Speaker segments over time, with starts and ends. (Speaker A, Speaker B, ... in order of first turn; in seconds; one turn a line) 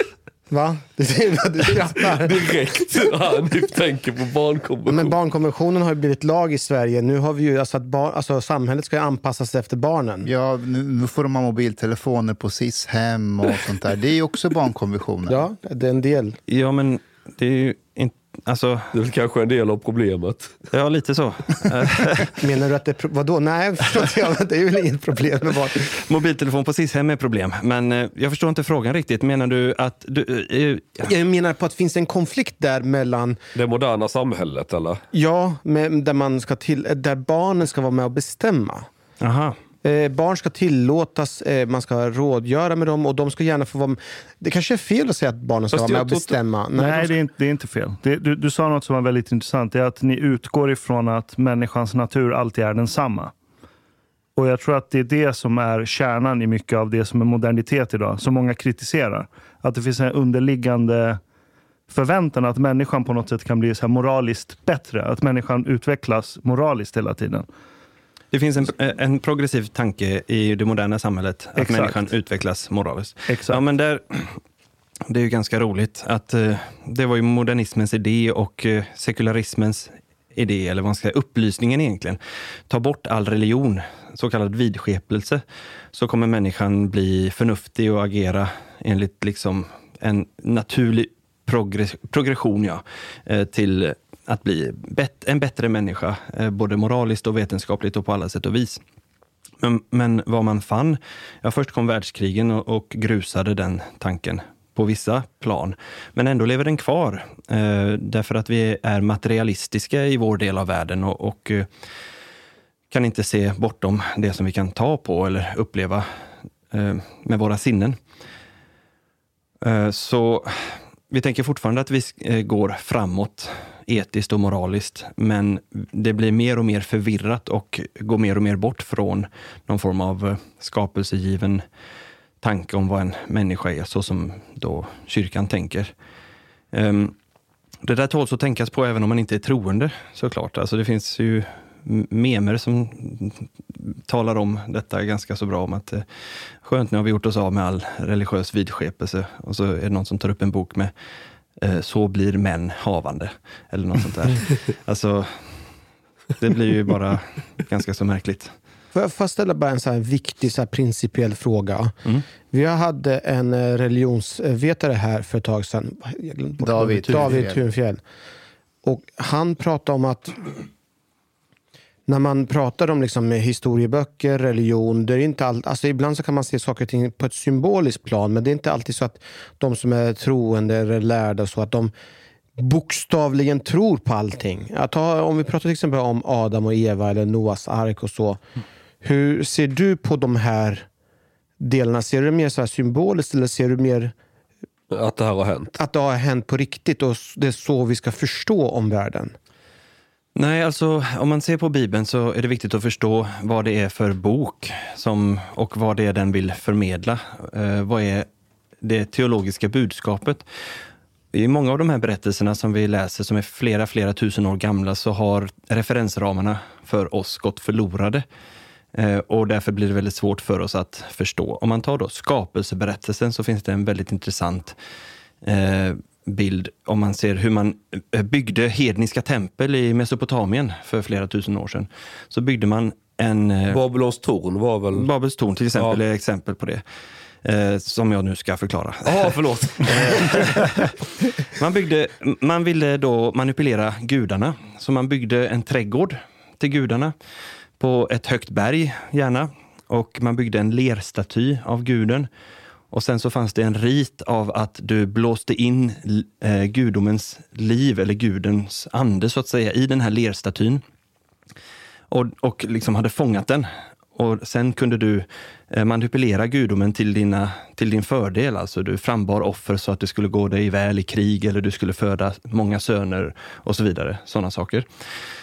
Speaker A: 0.5-2.3
Speaker B: 2.1-5.1
Speaker A: 4.9-10.3
Speaker C: 10.2-15.4
Speaker A: 15.3-16.4
Speaker D: 16.5-18.9
Speaker B: 18.9-20.6
Speaker D: 20.7-22.4
Speaker A: 22.4-25.9
Speaker D: 25.9-31.1
Speaker A: 31.0-33.4
Speaker B: 33.5-35.0
Speaker A: 35.1-38.9
Speaker D: 39.2-39.6
Speaker A: 39.8-47.1
Speaker B: 45.7-46.3
Speaker E: 46.7-53.3
Speaker E: 54.4-61.2
Speaker E: 61.9-67.5
Speaker D: 68.3-74.4
Speaker E: 71.5-72.0
Speaker E: 73.3-73.6
Speaker D: 75.1-98.8
Speaker D: 99.6-111.7
Speaker D: 112.9-116.1
Speaker D: 116.7-118.0
Speaker D: 119.6-131.6
Speaker D: 132.4-135.9
Speaker D: 136.7-137.1
Speaker D: 137.8-146.1
Speaker D: 146.6-150.9
Speaker D: 151.6-155.6
Speaker D: 156.3-158.5
Speaker A: 158.9-161.9
Speaker A: 162.5-168.0
Speaker C: 166.6-167.6
Speaker D: 167.0-167.4
Speaker A: 168.8-170.5
Speaker A: 172.1-181.9
Speaker A: 182.6-188.4
Speaker A: 189.0-190.9
Speaker A: 191.6-194.1
Speaker B: 194.9-195.7
Speaker A: 195.7-199.3
Speaker D: 200.3-208.3
Speaker D: 208.8-210.4
Speaker D: 211.3-218.2
Speaker D: 218.9-224.8
Speaker D: 225.4-233.8
Speaker B: 233.7-235.1
Speaker D: 234.9-236.8
Speaker D: 237.4-247.1
Speaker B: 239.1-240.5
Speaker D: 247.8-252.3
Speaker D: 252.9-260.8
Speaker D: 262.1-274.9